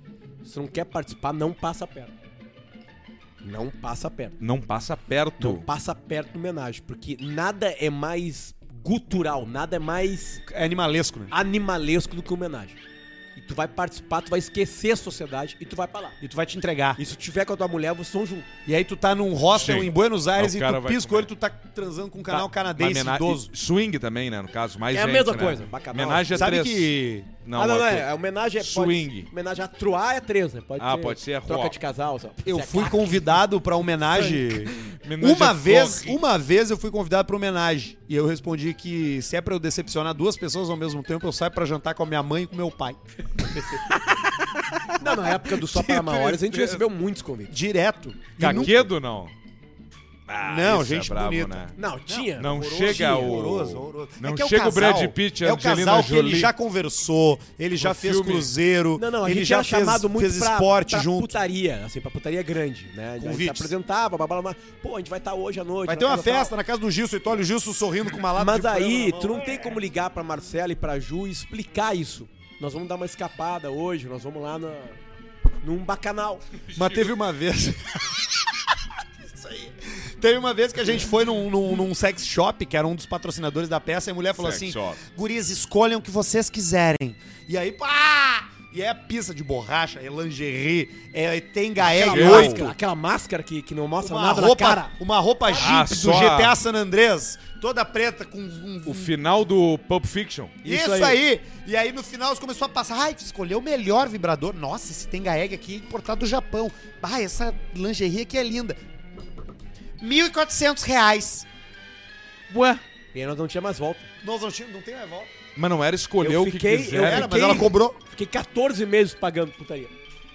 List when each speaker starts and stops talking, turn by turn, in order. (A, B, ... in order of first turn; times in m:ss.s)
0:00.4-0:02.1 A
0:03.4-0:04.4 A
0:04.4-0:05.6 B
0:05.4-0:10.4 A
0:10.4-0:11.3 C
0:11.3-0:12.8 A
0:13.4-0:16.2 A
0:16.2-0:17.0 C
0:17.0-0:18.5 A
0:18.7-0:23.5 C
0:19.6-0:21.3 B
0:22.3-0:29.3 B
0:24.9-0:26.5 A
0:26.3-0:27.3 C
0:27.5-0:33.2 A
0:30.8-0:31.8 B
0:32.4-0:43.0 C
0:34.1-0:34.4 A
0:34.7-0:36.2 B
0:43.4-0:43.8 A
0:44.1-0:46.8 B
0:45.0-0:47.6 A
0:47.5-0:48.8 C
0:48.4-0:49.3 B
0:48.4-0:48.7 A
0:50.3-0:51.8 B
0:50.4-1:01.4 C
0:51.8-0:53.3 A
0:52.4-0:56.5 B
0:57.8-0:58.5 B
0:59.0-1:06.5 A
1:03.2-1:03.7 C
1:05.9-1:09.8 C
1:08.4-1:15.0 A
1:15.6-1:16.4 A
1:16.7-1:32.7 C
1:24.4-1:25.0 B
1:31.8-1:34.9 A
1:31.9-1:32.7 B
1:34.0-1:39.1 C
1:35.5-1:36.6 B
1:38.9-1:40.6 B
1:40.6-1:41.2 A
1:40.6-1:48.8 C
1:50.0-1:51.5 C
1:52.5-1:52.8 B
1:53.1-1:54.1 A
1:54.2-1:55.3 C
1:55.6-1:57.6 B
1:56.2-1:59.9 A
1:57.0-1:58.0 C